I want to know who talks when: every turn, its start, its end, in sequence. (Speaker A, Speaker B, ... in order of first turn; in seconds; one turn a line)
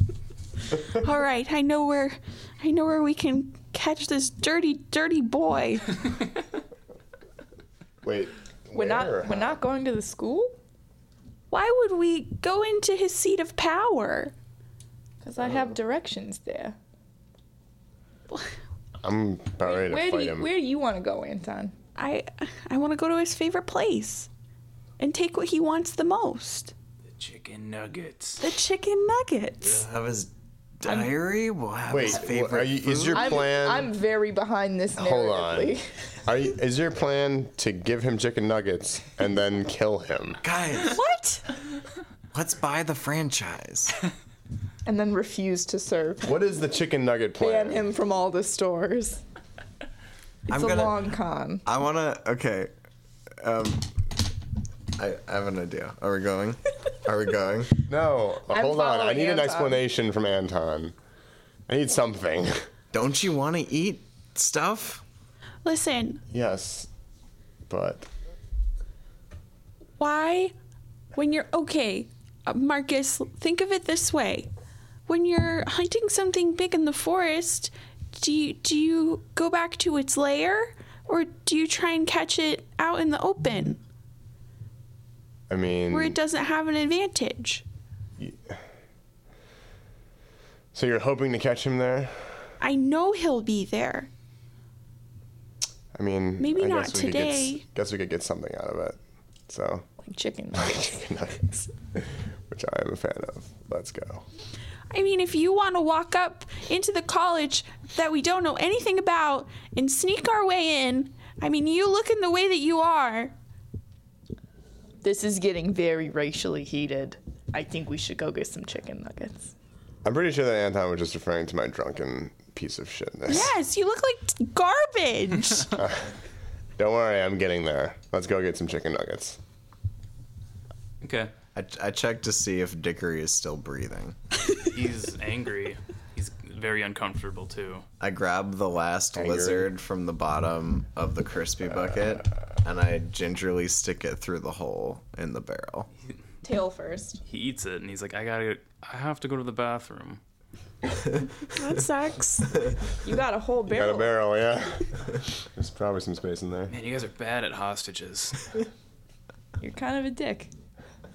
Speaker A: 0.7-6.0
Speaker B: 8.0-9.6
Speaker C: 8.7-10.6
Speaker A: 11.5-14.3
Speaker C: 15.2-16.8
Speaker B: 19.0-20.5
Speaker C: 19.6-21.7
Speaker A: 21.9-24.3
Speaker A: 25.0-26.7
Speaker D: 27.1-28.4
Speaker A: 28.4-29.8
Speaker E: 29.6-33.4
Speaker C: 30.9-31.1
Speaker B: 31.9-33.9
Speaker C: 33.1-35.9
Speaker B: 35.0-40.4
Speaker E: 40.4-41.0
Speaker A: 40.8-41.4
Speaker E: 42.3-44.0
Speaker C: 44.8-46.4
Speaker B: 46.2-47.8
Speaker C: 47.4-49.2
Speaker E: 50.5-51.1
Speaker C: 50.5-51.6
Speaker E: 51.6-52.7
Speaker E: 53.4-54.1
Speaker E: 55.0-57.7
Speaker B: 57.9-60.9
Speaker C: 58.5-59.8
Speaker B: 61.7-62.6
Speaker E: 62.9-65.0
Speaker A: 65.6-66.2
Speaker B: 66.3-66.9
Speaker B: 67.7-68.1
Speaker A: 70.0-70.5
Speaker A: 71.1-74.5
Speaker A: 75.1-83.8
Speaker B: 85.5-86.2
Speaker A: 85.9-87.6
Speaker B: 88.2-88.6
Speaker B: 90.7-92.5
Speaker A: 92.6-94.1
Speaker B: 95.9-99.8
Speaker A: 96.4-97.6
Speaker C: 100.0-101.7
Speaker B: 100.7-101.4
Speaker B: 101.9-104.2
Speaker A: 104.9-113.3
Speaker C: 115.0-119.5
Speaker B: 120.0-123.5
Speaker A: 123.2-125.8
Speaker B: 125.7-126.1
Speaker B: 126.8-129.4
Speaker D: 131.0-131.3
Speaker E: 131.5-134.2
Speaker D: 134.6-137.8
Speaker E: 138.0-145.9
Speaker B: 139.2-139.7
Speaker C: 146.4-147.2
Speaker D: 147.2-150.2
Speaker A: 151.4-152.6
Speaker C: 153.0-154.1
Speaker B: 153.7-156.7
Speaker D: 156.7-158.5
Speaker C: 159.6-160.5